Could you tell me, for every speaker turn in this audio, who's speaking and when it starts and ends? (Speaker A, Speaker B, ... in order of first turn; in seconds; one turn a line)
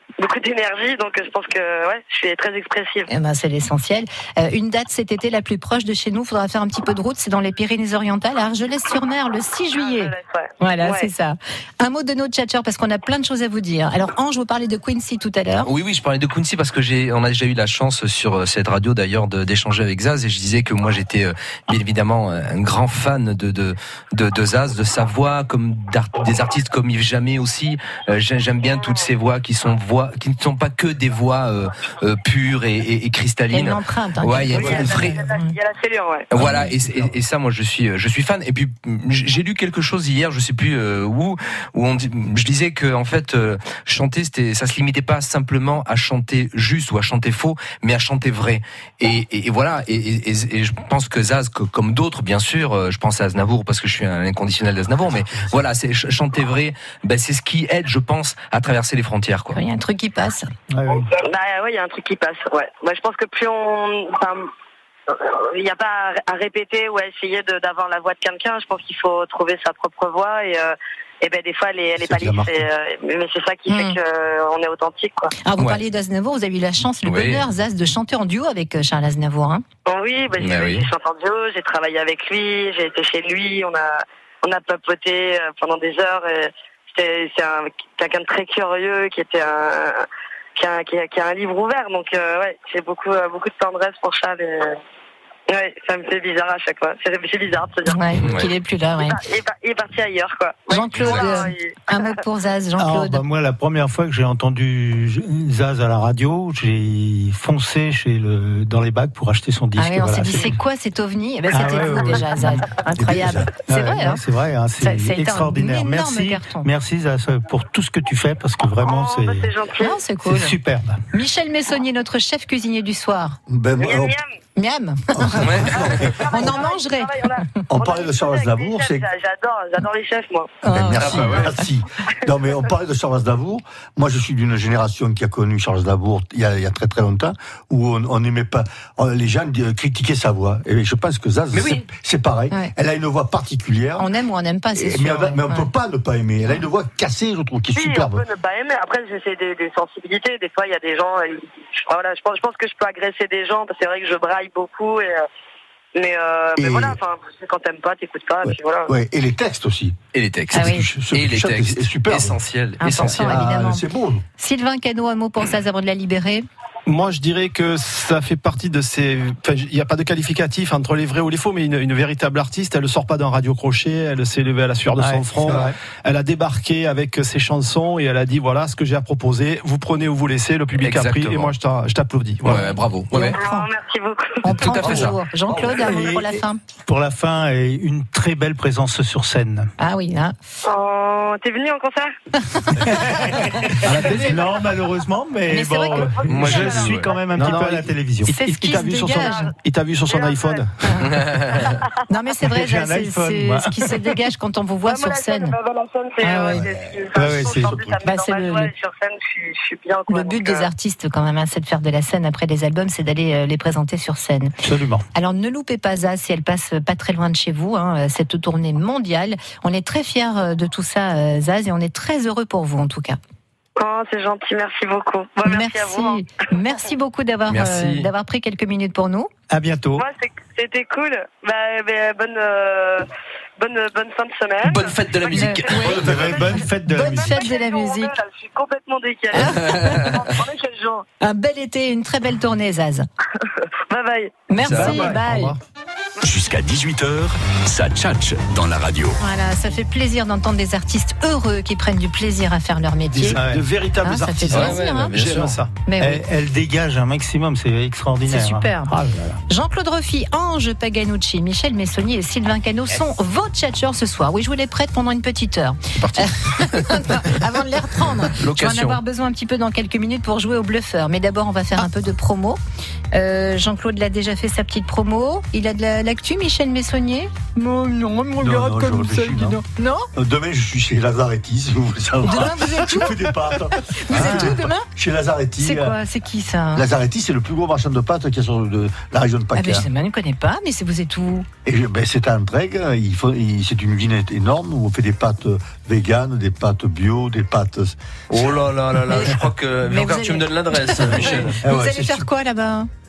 Speaker A: 0.2-3.1
Speaker B: 3.1-15.7
Speaker A: 9.8-11.1
Speaker C: 15.7-35.2
Speaker A: 28.6-29.1
Speaker B: 33.5-35.6
Speaker A: 34.5-36.3
Speaker D: 34.6-34.9
Speaker C: 36.3-59.6
Speaker D: 36.4-37.1
Speaker D: 55.2-55.6
Speaker B: 59.5-60.5
Speaker E: 60.7-61.1
Speaker A: 61.1-64.5
Speaker A: 65.1-75.3
Speaker D: 72.0-72.7
Speaker B: 73.7-74.0
Speaker B: 75.5-79.6
Speaker C: 77.0-77.4
Speaker A: 79.9-94.8
Speaker C: 80.4-80.9
Speaker A: 95.5-98.5
Speaker B: 97.9-99.2
Speaker A: 99.0-101.8
Speaker B: 100.7-103.2
Speaker C: 101.0-101.3
Speaker E: 102.8-110.6
Speaker B: 109.8-114.2
Speaker E: 111.5-112.7
Speaker D: 112.9-113.5
Speaker E: 113.5-119.5
Speaker B: 114.8-116.7
Speaker A: 118.8-120.0
Speaker B: 119.8-120.5
Speaker E: 120.2-121.0
Speaker B: 121.1-123.4
Speaker D: 123.5-124.2
Speaker A: 123.8-124.3
Speaker B: 124.6-125.7
Speaker D: 125.2-126.5
Speaker C: 125.4-126.0
Speaker A: 125.7-130.6
Speaker B: 126.3-127.4
Speaker D: 127.7-129.1
Speaker B: 130.6-131.5
Speaker D: 130.7-144.1
Speaker C: 131.0-131.6
Speaker C: 141.5-141.9
Speaker B: 144.0-145.7
Speaker D: 144.8-148.2
Speaker A: 147.7-155.2
Speaker A: 155.9-158.9
Speaker D: 156.6-157.0
Speaker D: 158.4-160.0
Speaker C: 160.1-163.4
Speaker D: 160.5-162.4
Speaker B: 160.5-160.9
Speaker B: 162.8-163.9
Speaker D: 163.1-164.2
Speaker B: 164.4-166.4
Speaker F: 166.9-182.6
Speaker E: 175.0-175.8
Speaker C: 180.8-181.6
Speaker C: 182.4-183.4
Speaker B: 182.6-183.7
Speaker A: 183.3-184.5
Speaker B: 184.4-186.6
Speaker C: 184.5-185.2
Speaker D: 184.8-186.2
Speaker E: 185.9-186.2
Speaker E: 186.9-189.7
Speaker B: 189.8-190.3
Speaker A: 190.7-192.1
Speaker B: 192.5-193.0
Speaker E: 192.8-198.4
Speaker B: 195.5-196.5
Speaker A: 195.9-197.2
Speaker C: 196.3-197.6
Speaker F: 197.4-200.8
Speaker B: 198.3-199.5
Speaker A: 199.2-199.5
Speaker A: 200.1-200.6
Speaker B: 200.8-201.1
Speaker C: 201.1-201.7
Speaker B: 202.1-205.6
Speaker E: 202.4-204.0
Speaker A: 204.8-210.7
Speaker B: 206.2-206.6
Speaker D: 206.5-208.0
Speaker E: 207.1-207.8
Speaker B: 208.0-208.7
Speaker B: 210.1-214.5
Speaker E: 214.6-215.1
Speaker B: 215.1-223.2
Speaker A: 223.8-226.2
Speaker B: 225.4-229.3
Speaker C: 227.5-228.1
Speaker E: 229.5-230.1
Speaker A: 230.0-233.1
Speaker A: 233.6-241.1
Speaker C: 234.6-236.1
Speaker B: 235.3-236.0
Speaker E: 235.9-237.4
Speaker D: 236.0-236.5
Speaker B: 236.9-238.1
Speaker B: 239.3-240.0
Speaker C: 239.7-240.2
Speaker B: 241.2-243.1
Speaker A: 243.4-244.5
Speaker B: 244.5-245.6
Speaker C: 244.6-245.1
Speaker F: 244.7-245.5
Speaker E: 244.9-245.2
Speaker G: 246.2-249.2
Speaker B: 249.2-253.4
Speaker F: 253.1-255.7
Speaker E: 253.3-253.7
Speaker B: 254.0-255.2
Speaker C: 254.5-255.6
Speaker B: 255.8-256.2
Speaker E: 256.0-259.4
Speaker B: 258.3-258.9
Speaker B: 259.5-272.6
Speaker C: 266.0-267.2
Speaker C: 268.3-269.0
Speaker B: 273.1-280.1
Speaker D: 278.4-279.6
Speaker D: 280.1-286.0
Speaker B: 282.2-283.3
Speaker B: 283.9-284.9
Speaker B: 285.6-286.9
Speaker D: 286.7-289.9
Speaker B: 289.6-291.5
Speaker D: 291.6-298.5
Speaker C: 298.3-301.6
Speaker B: 299.1-302.9
Speaker D: 301.6-302.3